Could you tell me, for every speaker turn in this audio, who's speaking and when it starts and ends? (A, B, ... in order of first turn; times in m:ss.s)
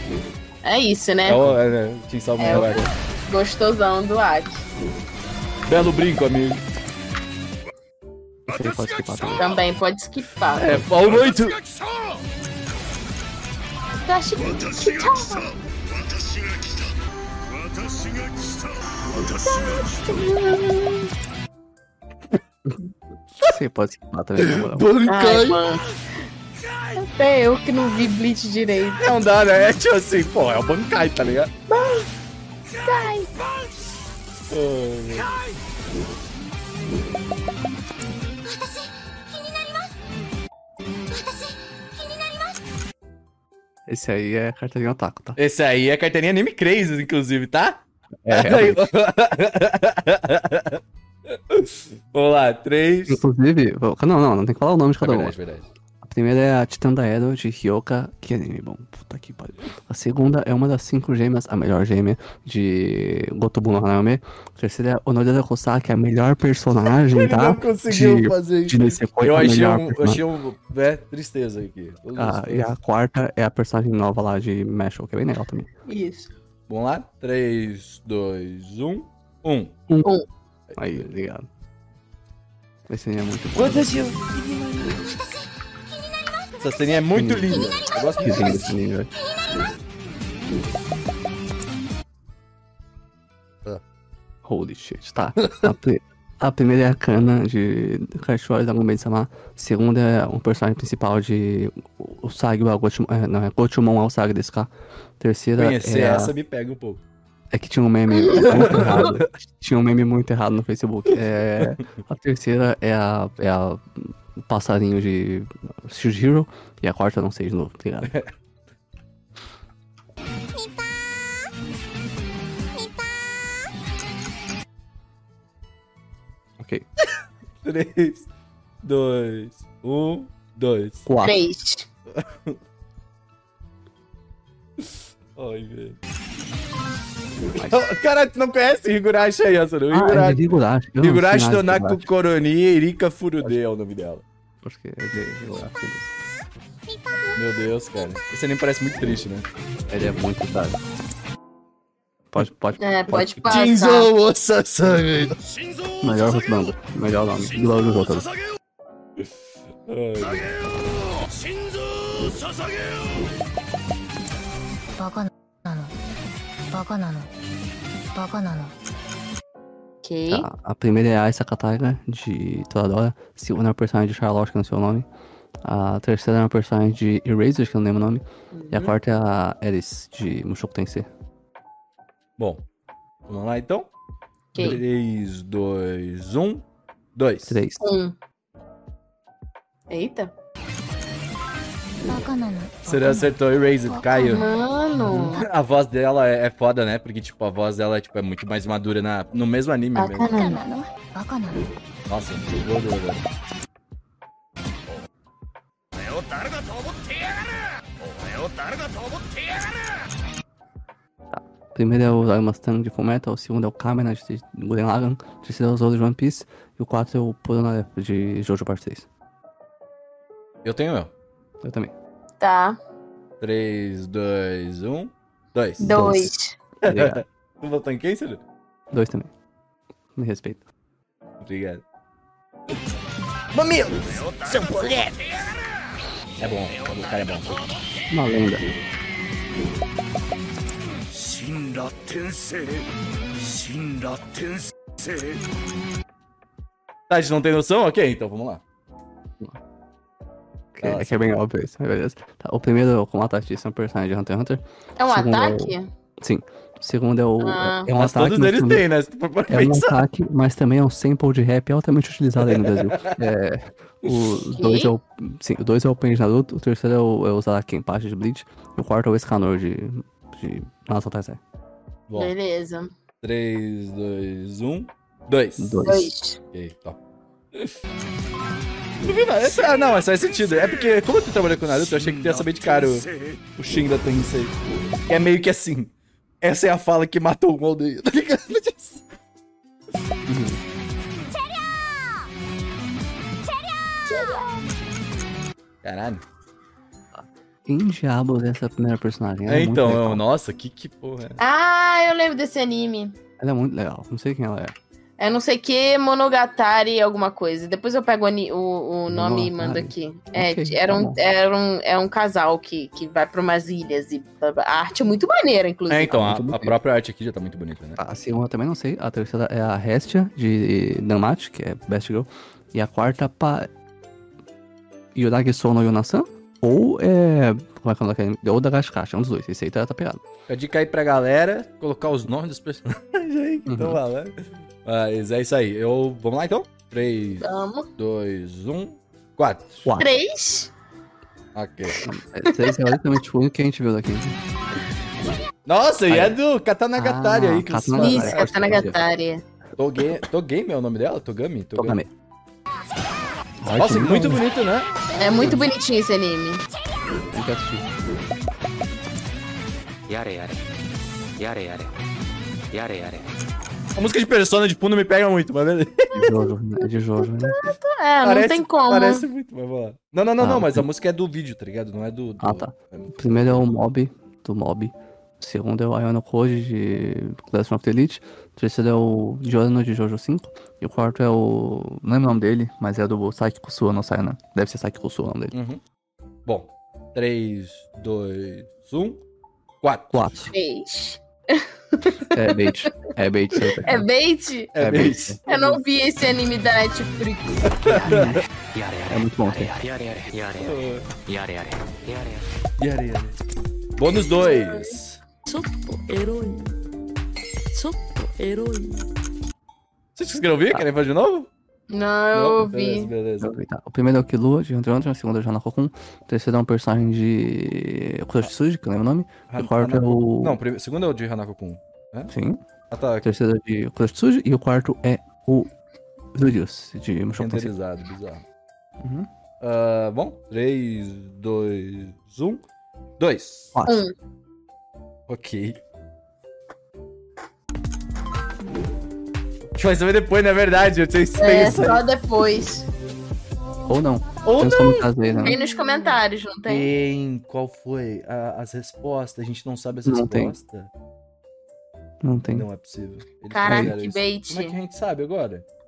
0:00.6-0:01.6 A
0:01.2-0:02.9 B
0:02.4-0:04.7 A
0:02.5-0:02.9 C
0:05.7-0:06.6 B
0:08.5-0:09.5 C
0:08.6-0:09.4 D
0:09.4-0:10.8 A
0:10.6-0:11.6 B
0:11.2-0:12.2 D
0:14.0-0:15.5 A
0:14.4-0:16.9 D
0:17.5-0:20.1 D
0:19.2-0:20.6 A
0:23.4-0:24.9 C
0:24.4-0:25.6 B
0:25.0-0:25.8 A
0:27.0-0:29.1 A
0:29.0-0:31.5 B
0:31.7-0:32.1 A
0:32.8-0:33.3 A
0:34.5-0:35.3 B
0:38.5-0:39.9 E
0:41.2-0:42.6 E
0:43.9-0:45.4 C
0:45.4-0:50.8 B
0:48.2-0:48.9 C
0:51.5-0:53.2 B
0:53.1-0:55.4 C
0:55.0-0:55.7 B
0:56.0-1:10.2 C
1:07.0-1:12.7 B
1:12.2-1:15.7 C
1:15.9-1:16.3 A
1:16.7-1:19.8 B
1:19.9-1:20.1 C
1:20.7-1:21.0 B
1:20.8-1:21.5 C
1:22.9-1:24.0 C
1:23.6-1:24.8 B
1:26.6-1:28.7 B
1:27.2-1:29.1 C
1:34.4-1:46.3 C
1:35.4-1:35.7 B
1:45.6-1:47.0 B
1:47.5-1:58.1 C
1:48.2-1:48.5 A
1:48.4-1:49.3 B
2:02.8-2:03.0 E
2:06.6-2:06.8 C
2:07.6-2:08.3 B
2:08.8-2:11.1 B
2:11.1-2:11.4 C
2:11.2-2:11.9 A
2:12.2-2:12.6 B
2:15.4-2:16.0 B
2:17.6-2:17.8 C
2:17.7-2:20.4 B
2:19.9-2:22.1 C
2:21.0-2:24.2 B
2:24.6-2:26.1 C
2:26.9-2:27.4 E
2:27.4-2:29.5 B
2:29.9-2:30.8 C
2:32.3-2:33.4 C
2:32.8-2:34.1 A
2:33.4-2:35.4 B
2:35.5-2:36.4 D
2:36.0-2:38.3 C
2:39.9-2:40.5 B
2:41.2-2:43.2 D
2:45.0-2:45.9 E
2:46.7-2:47.3 E
2:48.2-2:48.7 E
2:50.0-2:50.5 A
2:50.3-2:55.1 C
2:55.6-3:01.1 C
2:58.5-2:58.9 A
3:02.4-3:02.6 B
3:03.3-3:03.9 B
3:04.5-3:04.8 A
3:04.6-3:07.6 B
3:07.5-3:07.9 C
3:07.8-3:08.2 A
3:09.9-3:10.3 A
3:12.0-3:13.3 E
3:12.8-3:14.4 B
3:13.9-3:14.5 E
3:14.3-3:15.4 A
3:15.4-3:20.3 B
3:20.0-3:20.6 A
3:20.3-3:21.7 E
3:22.1-3:23.2 B
3:31.3-3:39.1 C
3:40.6-3:41.1 B
3:41.6-3:41.9 C
3:42.4-3:42.8 A
3:43.4-3:45.9 B
3:45.8-3:46.6 A
3:45.8-3:46.3 C
3:46.8-3:48.4 B
3:46.9-3:47.2 C
3:48.9-3:49.3 C
3:50.2-3:50.6 C
3:51.4-3:51.8 B
3:53.5-3:55.4 B
3:56.4-3:57.7 B
3:58.1-3:58.6 C
4:01.1-4:02.8 B
4:03.5-4:04.4 B
4:07.1-4:08.6 B
4:10.8-4:18.8 C
4:10.8-4:11.3 B
4:15.0-4:15.9 A
4:17.4-4:17.9 A
4:18.0-4:20.0 B
4:19.5-4:31.4 C
4:22.5-4:23.2 B
4:24.1-4:24.3 B
4:24.6-4:24.9 A
4:32.1-4:32.3 B
4:32.1-4:32.9 A
4:33.2-4:35.8 B
4:35.6-4:36.1 C
4:35.8-4:36.4 A
4:36.5-4:37.0 B
4:39.0-4:44.5 B
4:45.1-4:49.0 B
4:50.3-4:50.6 C
4:51.3-4:52.3 E
4:53.4-4:54.4 E
4:55.8-4:56.2 B
4:57.1-5:00.2 C
4:59.5-5:01.4 B
5:01.4-5:03.2 A
5:03.4-5:04.8 C
5:05.2-5:16.3 A
5:09.1-5:11.2 C
5:15.9-5:18.0 B
5:16.2-5:16.8 C
5:18.0-5:23.7 C
5:25.2-5:30.2 C
5:30.5-5:39.9 B
5:33.7-5:34.0 C
5:37.4-5:37.9 A
5:40.0-5:40.7 A
5:41.6-5:42.0 B
5:42.0-5:44.4 C
5:42.5-5:42.8 A
5:45.7-5:49.0 B
5:46.1-5:46.4 C
5:47.0-5:49.0 C
5:48.0-5:49.4 A
5:49.8-5:52.0 B
5:51.8-5:52.1 C
5:53.6-5:54.4 C
5:53.8-5:54.9 B
5:55.2-5:56.6 A
5:55.4-5:55.7 C
5:57.3-5:57.9 C
6:00.1-6:00.6 F
6:01.4-6:01.9 F
6:02.7-6:03.3 F
6:04.0-6:06.3 B
6:06.1-6:07.7 C
6:07.2-6:09.2 A
6:08.2-6:13.6 B
6:10.4-6:10.9 C
6:12.4-6:25.5 C
6:25.5-6:25.8 B
6:26.5-6:29.2 B
6:29.8-6:30.3 B
6:30.1-6:30.5 C
6:30.5-6:32.8 A
6:32.3-6:34.1 C
6:33.8-6:34.7 A
6:34.8-6:35.8 B
6:34.8-6:35.4 C
6:35.5-6:37.7 A
6:37.8-6:38.4 B
6:37.9-6:38.4 C
6:38.7-6:42.5 F
6:39.1-6:39.8 C
6:40.6-6:41.1 B
6:42.8-6:43.4 B
6:44.0-6:45.2 B
6:44.4-6:45.0 A
6:45.5-6:46.7 G
6:47.7-6:49.0 G
6:50.2-6:51.5 B
6:51.9-6:53.1 A
6:52.3-6:53.6 B
6:53.4-7:00.6 C
6:59.5-7:02.3 B
7:02.3-7:02.6 C
7:02.9-7:03.3 B
7:03.2-7:05.7 C
7:06.3-7:07.7 C
7:07.4-7:08.4 B
7:09.0-7:09.3 C
7:09.6-7:12.6 B
7:13.2-7:13.8 B
7:13.8-7:14.0 C
7:13.9-7:14.1 A
7:15.3-7:15.8 B
7:19.8-7:22.0 B
7:21.4-7:22.9 A
7:23.9-7:25.6 C
7:24.4-7:25.1 B
7:25.4-7:26.9 A
7:26.7-7:30.9 B
7:30.0-7:30.6 C
7:32.2-7:32.7 C
7:32.4-7:35.6 B
7:33.5-7:34.7 A
7:33.6-7:33.9 C